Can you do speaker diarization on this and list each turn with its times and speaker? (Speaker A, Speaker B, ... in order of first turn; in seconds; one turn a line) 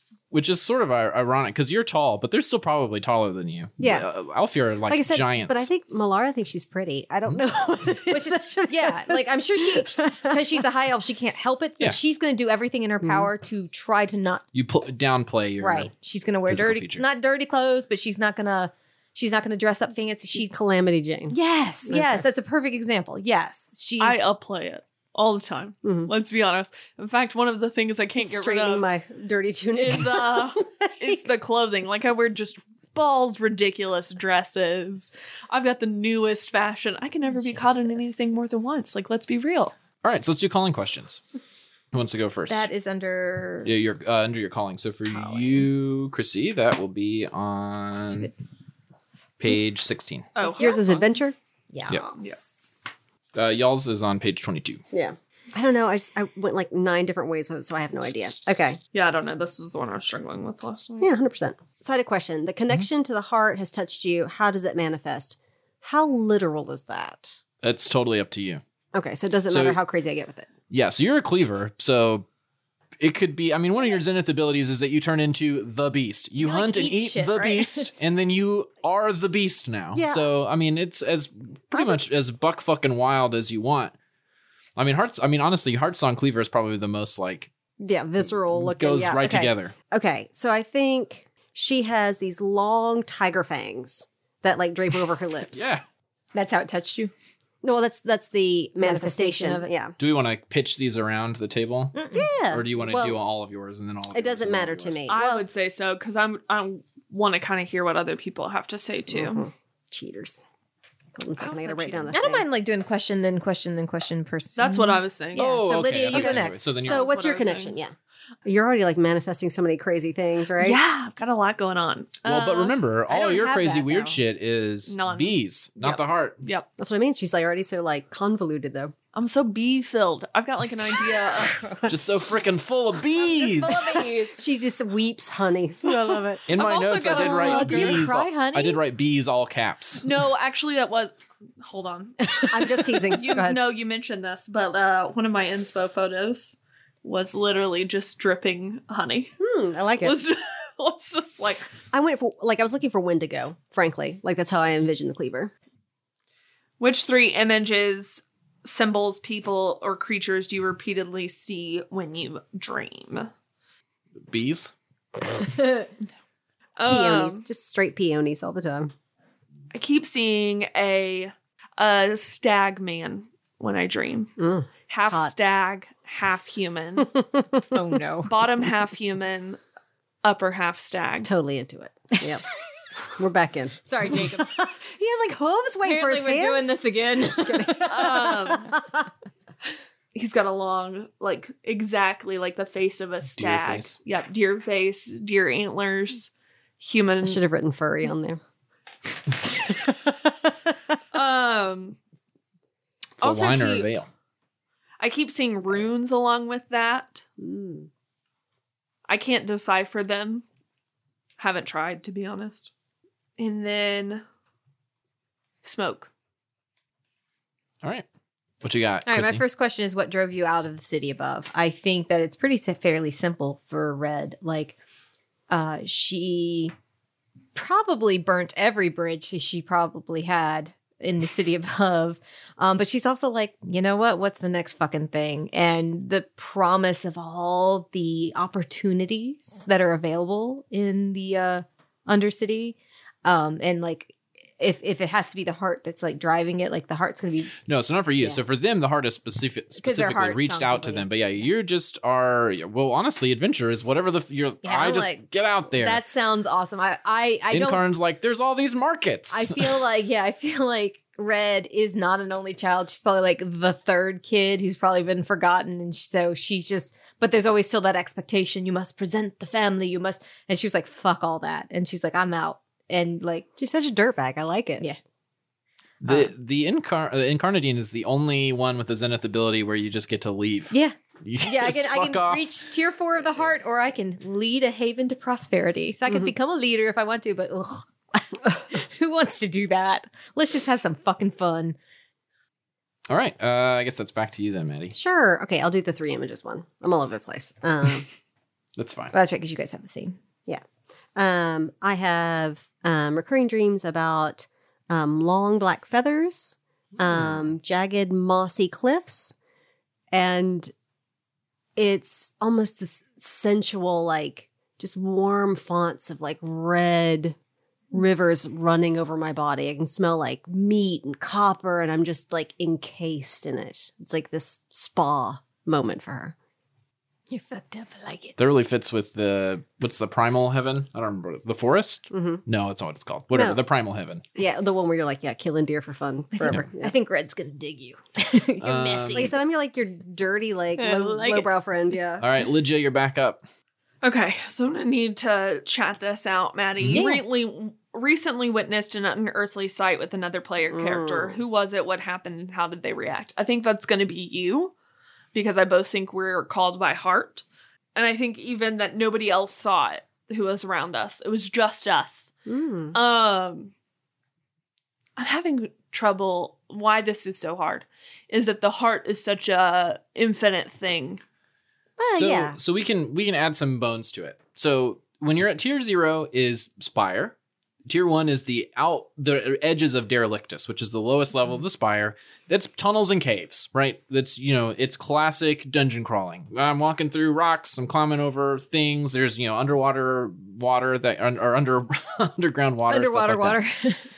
Speaker A: 0.3-5.7
Speaker B: 3.8-4.1
Speaker B: 4.9-10.6
Speaker C: 8.1-14.4
Speaker B: 13.0-13.3
Speaker A: 14.5-15.9
Speaker C: 15.6-20.6
Speaker A: 16.5-17.0
Speaker B: 20.3-21.4
Speaker C: 21.3-24.2
Speaker B: 21.9-22.2
Speaker D: 24.0-28.9
Speaker B: 25.8-26.1
Speaker B: 28.2-31.2
Speaker D: 29.8-39.7
Speaker C: 37.3-38.3
Speaker A: 40.0-41.2
Speaker A: 41.9-42.7
Speaker C: 42.5-43.7
Speaker A: 43.6-48.3
Speaker C: 45.1-45.7
Speaker C: 48.0-48.3
Speaker A: 49.4-50.3
Speaker D: 50.4-51.1
Speaker B: 50.6-51.4
Speaker C: 51.7-52.9
Speaker A: 53.3-54.8
Speaker B: 54.9-58.8
Speaker D: 58.9-61.1
Speaker B: 61.0-67.4
Speaker A: 67.6-68.6
Speaker B: 68.9-70.5
Speaker A: 69.5-69.8
Speaker A: 70.7-72.3
Speaker A: 73.0-83.9
Speaker C: 76.4-77.9
Speaker B: 79.9-80.2
Speaker B: 81.7-82.0
Speaker A: 84.8-87.5
Speaker B: 87.8-95.7
Speaker A: 88.5-89.7
Speaker A: 95.5-95.8
Speaker C: 96.3-97.1
Speaker B: 97.6-100.0
Speaker C: 98.8-99.7
Speaker A: 100.0-105.0
Speaker C: 101.9-102.2
Speaker B: 102.1-103.2
Speaker B: 104.1-105.5
Speaker D: 105.1-109.4
Speaker B: 109.1-110.4
Speaker B: 111.2-112.5
Speaker D: 111.4-112.1
Speaker C: 112.1-116.8
Speaker D: 114.6-115.5
Speaker A: 115.3-117.2
Speaker B: 116.1-120.8
Speaker D: 116.8-117.8
Speaker D: 120.6-122.8
Speaker A: 122.2-126.4
Speaker C: 123.1-124.2
Speaker D: 124.9-126.7
Speaker B: 126.8-128.9
Speaker D: 129.1-131.6
Speaker C: 131.5-131.9
Speaker A: 131.9-134.0
Speaker C: 133.2-134.4
Speaker B: 134.4-136.4
Speaker D: 135.9-138.1
Speaker A: 136.5-140.1
Speaker C: 137.0-138.8
Speaker D: 140.0-149.3
Speaker B: 142.5-143.6
Speaker B: 149.4-150.2
Speaker D: 150.0-151.7
Speaker B: 151.9-155.5
Speaker D: 156.8-163.3
Speaker A: 164.3-164.7
Speaker D: 166.8-167.4
Speaker B: 166.9-168.9
Speaker D: 169.7-174.3
Speaker B: 174.4-175.3
Speaker D: 174.9-177.2
Speaker B: 177.2-177.6
Speaker C: 177.7-178.3
Speaker D: 178.3-179.6
Speaker D: 180.2-181.3
Speaker B: 181.2-182.4
Speaker B: 183.2-186.8
Speaker C: 183.8-184.6
Speaker C: 185.8-188.3
Speaker B: 187.3-189.1
Speaker D: 187.9-188.7
Speaker D: 190.1-197.4
Speaker A: 193.4-194.0
Speaker B: 197.2-198.4
Speaker B: 199.4-200.9
Speaker D: 201.1-202.0
Speaker D: 203.2-203.9
Speaker A: 203.2-204.1
Speaker D: 205.0-207.2
Speaker B: 207.4-207.9
Speaker D: 209.1-210.4
Speaker D: 211.4-212.7
Speaker D: 213.4-214.2
Speaker D: 215.6-216.1
Speaker A: 218.6-219.4
Speaker C: 219.1-224.8
Speaker C: 225.5-226.7
Speaker C: 227.6-247.6
Speaker A: 247.7-256.0
Speaker C: 249.8-251.1
Speaker C: 254.6-257.8
Speaker A: 257.5-259.7
Speaker C: 259.3-273.5
Speaker B: 273.6-274.9
Speaker A: 276.0-282.5
Speaker C: 276.1-276.3
Speaker C: 280.7-291.8
Speaker A: 293.1-294.9
Speaker B: 294.9-298.1
Speaker A: 298.8-299.1
Speaker C: 299.1-300.2
Speaker B: 301.2-309.3
Speaker A: 307.0-307.4
Speaker B: 310.1-310.7
Speaker B: 311.8-317.4
Speaker B: 317.9-326.4
Speaker C: 327.3-328.4
Speaker A: 328.4-334.2
Speaker B: 332.1-332.4
Speaker B: 333.3-333.6
Speaker B: 334.4-336.9
Speaker C: 336.3-339.4
Speaker A: 338.6-339.3
Speaker B: 339.1-342.2
Speaker C: 340.8-341.5
Speaker A: 342.2-343.4
Speaker D: 344.0-354.7
Speaker A: 346.8-347.1
Speaker B: 350.7-351.4
Speaker D: 355.3-362.3
Speaker B: 362.5-363.0
Speaker D: 362.9-363.7
Speaker D: 365.2-371.2
Speaker B: 372.0-372.6
Speaker A: 372.1-377.4
Speaker A: 377.9-393.6
Speaker C: 392.9-394.1